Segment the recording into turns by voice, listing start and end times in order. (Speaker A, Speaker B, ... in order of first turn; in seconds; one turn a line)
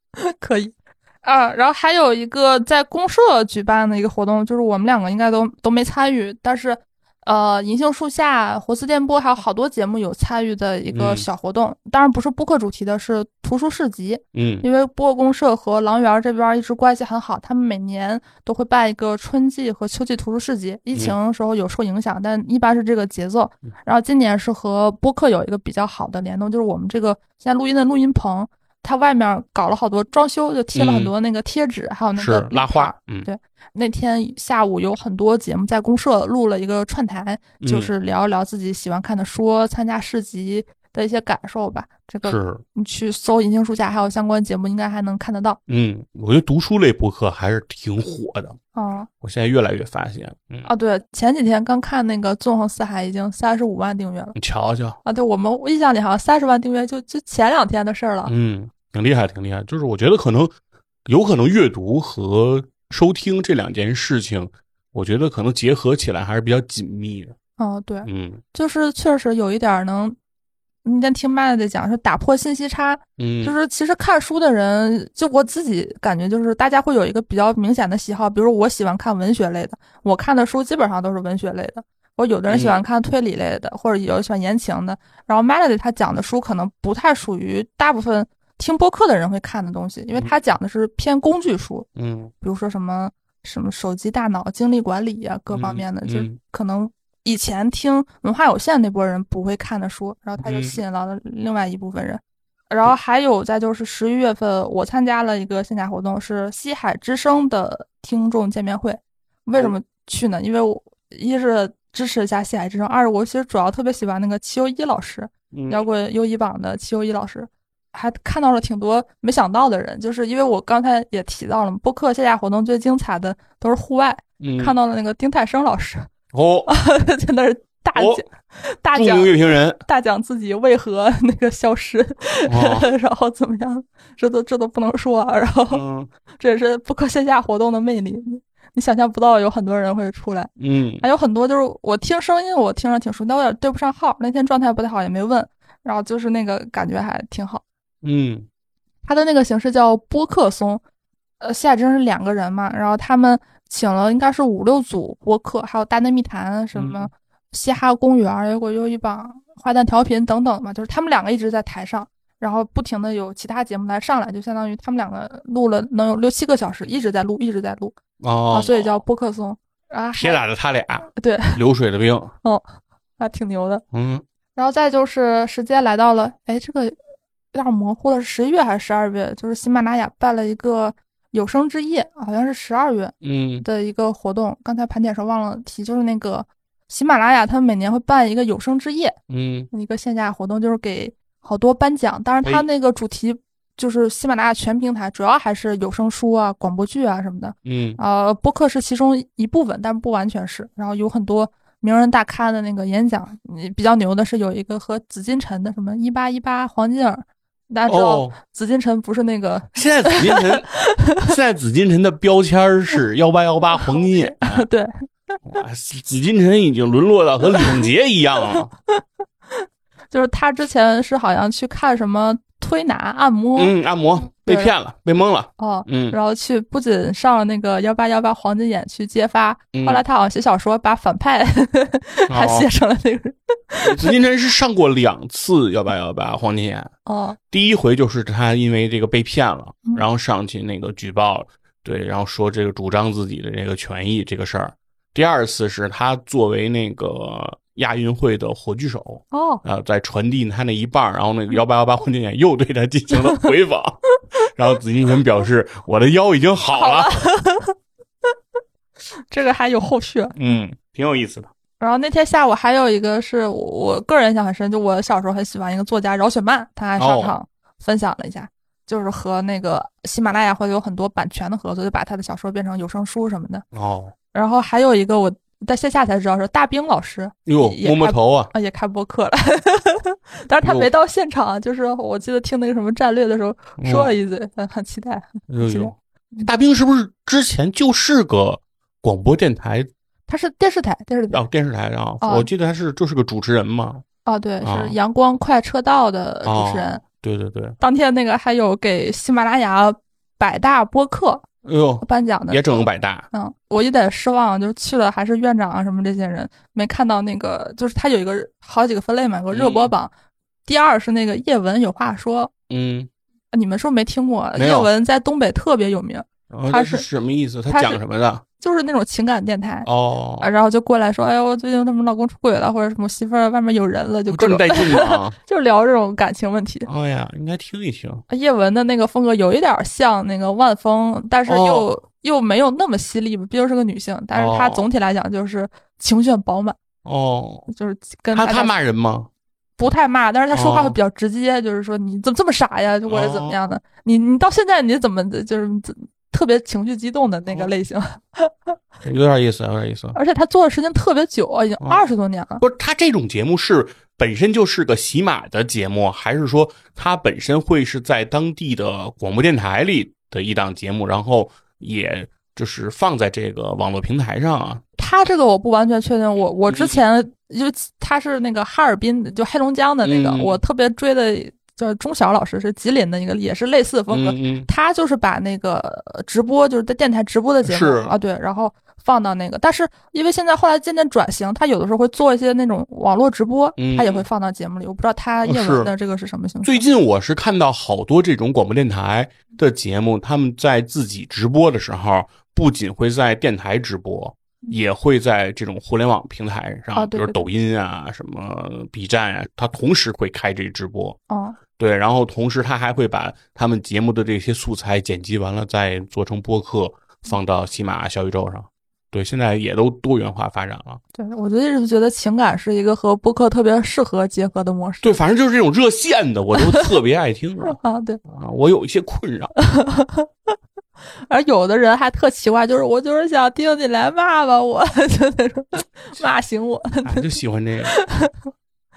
Speaker A: 0.2-45.6
Speaker B: 10.9-11.2
Speaker B: 14.3-14.7
Speaker B: 30.7-31.1
Speaker B: 32.2-33.3
Speaker B: 37.6-37.9
Speaker B: 42.2-42.6
Speaker B: 45.7-48.6
Speaker A: 48.8-49.1
Speaker B: 49.2-50.7
Speaker A: 50.6-54.4
Speaker B: 54.4-55.0
Speaker A: 55.0-58.3
Speaker B: 58.2-60.5
Speaker B: 61.0-67.3
Speaker A: 67.6-70.2
Speaker B: 68.0-68.4
Speaker A: 70.8-91.9
Speaker B: 73.2-73.5
Speaker B: 82.5-82.8
Speaker B: 92.0-92.3
Speaker A: 92.4-126.1
Speaker B: 95.5-96.4
Speaker B: 100.4-100.8
Speaker B: 115.5-115.8
Speaker B: 124.4-124.8
Speaker B: 126.3-126.7
Speaker A: 126.7-135.8
Speaker B: 128.0-128.2
Speaker B: 128.9-129.8
Speaker B: 132.5-132.9
Speaker B: 135.7-136.1
Speaker A: 136.4-147.6
Speaker B: 140.6-141.1
Speaker B: 148.0-148.5
Speaker A: 149.1-150.8
Speaker A: 151.4-167.9
Speaker B: 156.8-157.1
Speaker B: 168.2-169.0
Speaker A: 168.5-170.4
Speaker B: 170.2-172.3
Speaker A: 171.2-171.6
Speaker A: 173.2-173.8
Speaker B: 173.9-174.2
Speaker A: 174.6-176.9
Speaker A: 177.5-189.2
Speaker B: 183.2-183.7
Speaker B: 189.3-189.7
Speaker A: 189.7-211.3
Speaker B: 197.7-198.0
Speaker B: 207.9-208.3
Speaker B: 209.7-214.7
Speaker A: 213.8-215.4
Speaker B: 215.5-218.7
Speaker A: 217.4-217.8
Speaker A: 218.5-223.7
Speaker B: 223.6-226.2
Speaker A: 224.4-224.7
Speaker A: 225.6-234.2
Speaker B: 229.7-230.0
Speaker B: 232.3-232.7
Speaker B: 233.8-236.9
Speaker A: 237.1-237.4
Speaker B: 237.5-257.1
Speaker A: 249.3-249.6
Speaker A: 256.7-257.8
Speaker A: 259.3-260.3
Speaker B: 260.4-261.5
Speaker A: 261.8-273.6
Speaker B: 267.0-267.4
Speaker B: 273.7-274.1
Speaker A: 274.3-286.5
Speaker B: 277.5-278.5
Speaker B: 280.6-280.9
Speaker B: 283.8-284.1
Speaker B: 285.5-289.9
Speaker A: 290.3-291.4
Speaker B: 291.3-294.0
Speaker A: 292.2-292.5
Speaker A: 294.2-297.0
Speaker B: 294.6-295.0
Speaker B: 296.4-297.8
Speaker A: 297.8-301.4
Speaker B: 301.6-303.3
Speaker A: 302.0-310.1
Speaker B: 309.5-309.9
Speaker A: 310.7-312.5
Speaker B: 312.7-313.1
Speaker A: 313.5-317.0
Speaker B: 314.6-314.9
Speaker B: 316.5-318.4
Speaker A: 317.7-318.0
Speaker A: 318.6-319.9
Speaker B: 319.9-320.5
Speaker A: 320.4-326.9
Speaker B: 324.3-325.4
Speaker B: 326.9-328.2
Speaker A: 328.3-336.8
Speaker B: 331.5-331.9
Speaker B: 334.4-334.9
Speaker B: 337.0-337.7
Speaker A: 337.7-338.7
Speaker B: 338.3-339.3
Speaker A: 339.8-348.8
Speaker B: 340.5-341.0
Speaker B: 343.1-343.6
Speaker B: 349.0-350.2
Speaker A: 350.1-352.6
Speaker B: 351.8-352.1
Speaker B: 352.6-364.8
Speaker A: 365.0-386.8
Speaker B: 366.7-367.0
Speaker B: 370.0-370.6
Speaker B: 374.1-374.7
Speaker B: 377.6-378.1
Speaker B: 383.8-384.2
Speaker B: 385.4-385.9
Speaker B: 386.6-401.2
Speaker A: 396.9-397.5
Speaker A: 401.3-401.6
Speaker B: 401.8-411.0
Speaker A: 411.1-415.2
Speaker B: 415.0-419.5
Speaker A: 416.6-416.9
Speaker A: 417.6-418.2
Speaker A: 419.6-420.3
Speaker A: 421.3-428.4
Speaker B: 427.0-428.0